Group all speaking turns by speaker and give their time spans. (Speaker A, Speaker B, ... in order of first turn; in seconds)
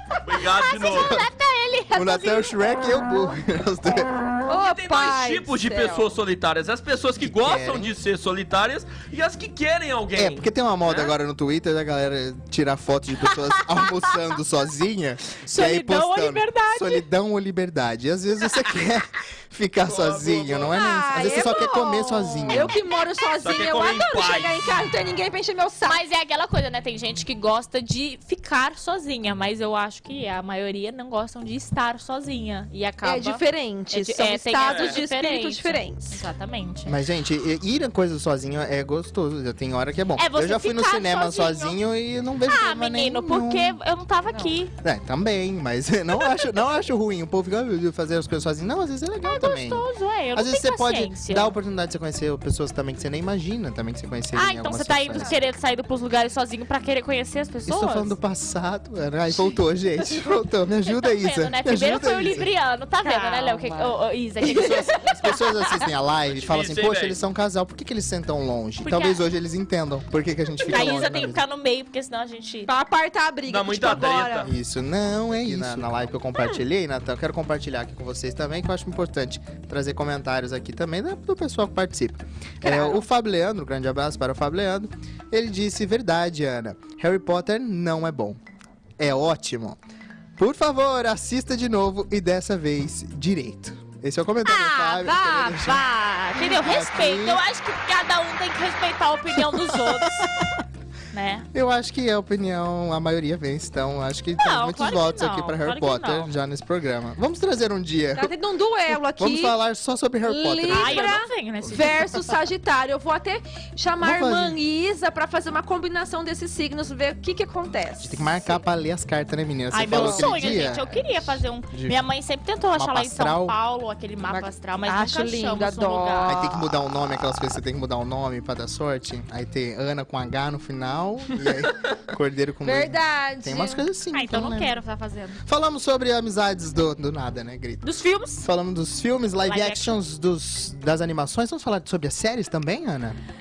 Speaker A: 0.2-1.2, 4.6-11.2, 19.8-21.4, 23.4-24.6, 34.6-35.0, 66.2-67.2, 73.5-74.5
Speaker B: 0.4-2.6, 15.5-17.0, 25.8-37.0, 40.2-41.8, 42.5-44.7, 49.2-51.5, 54.3-58.2, 60.9-65.2, 68.8-69.2, 70.6-72.7, 94.4-100.3, 101.1-101.5, 104.3-106.3, 110.7-112.2, 119.7-126.4, 134.1-135.4, 137.8-138.4, 139.4-140.0
Speaker C: 0.9-1.3, 1.9-4.1, 7.2-8.0, 10.1-22.8, 36.9-43.8, 44.8-55.3, 57.6-62.5, 64.4-71.4, 74.4-88.4, 89.0-89.8, 90.4-97.4, 99.3-100.5, 101.5-108.3, 108.9-111.2, 114.0-114.6, 118.0-122.0, 122.7-123.5, 126.2-134.8, 135.4-137.8, 138.4-143.2
Speaker D: 4.5-6.1, 20.7-26.0, 33.0-36.2, 44.3-44.5, 55.2-55.4, 63.0-65.9, 72.7-74.5, 75.5-75.8, 82.6-83.0, 108.1-109.6, 110.2-118.6, 119.8-120.6, 124.3-126.7, 132.6-133.8